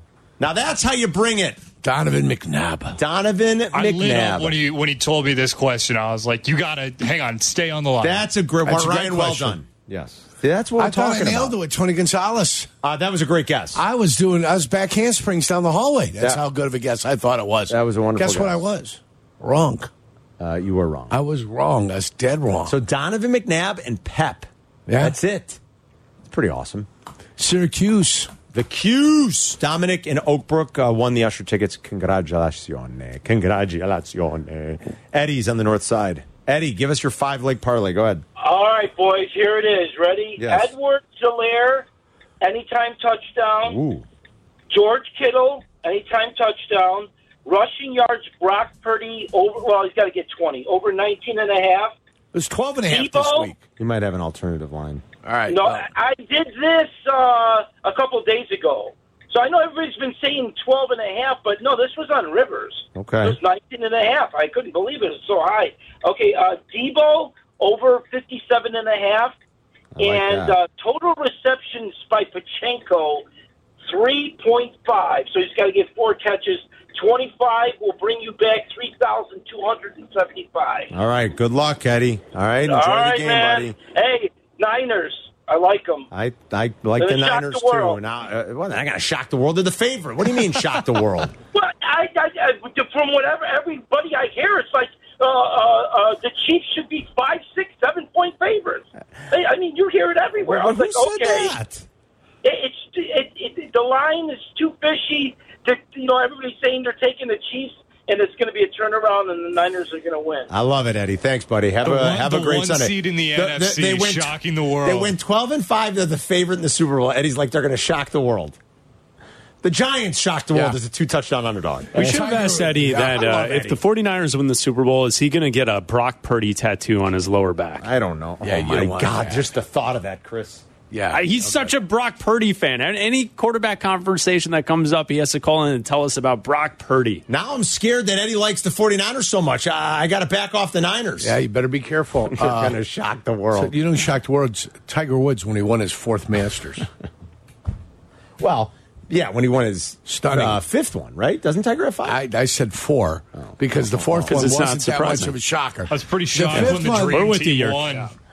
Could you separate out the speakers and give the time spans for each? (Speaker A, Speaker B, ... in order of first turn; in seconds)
Speaker A: 0.4-1.6, 3.0-4.6, 8.0-11.5, 12.8-13.8, 17.7-18.6, 20.4-21.1, 22.6-25.6, 26.2-26.9, 28.5-38.2, 40.4-40.7, 43.6-44.0, 53.8-55.0, 62.9-63.4, 70.0-70.5, 80.9-83.8, 86.1-91.3, 100.4-101.8, 110.5-118.6, 119.6-122.2, 127.8-130.7, 137.3-141.4, 142.3-143.7, 148.4-152.2, 153.8-154.6
Speaker B: 1.8-3.0, 8.6-9.6, 10.8-12.7, 13.7-19.9, 21.1-22.8, 24.9-25.2, 27.4-28.3, 52.3-53.6, 55.2-55.9, 121.9-123.8, 128.4-129.5, 130.9-131.5, 141.2-142.8, 143.5-146.9, 150.1-150.6, 152.0-157.4
Speaker C: 3.7-8.3, 111.8-115.2, 155.9-158.1
Speaker D: 38.4-41.9, 42.4-43.8, 44.7-51.9, 52.9-53.5, 55.5-69.3, 70.0-73.2, 73.8-80.9, 82.6-86.1, 87.0-88.0, 91.5-101.6, 102.4-110.5
Speaker E: 121.9-127.9, 131.1-137.2, 154.2-155.4, 156.5-158.1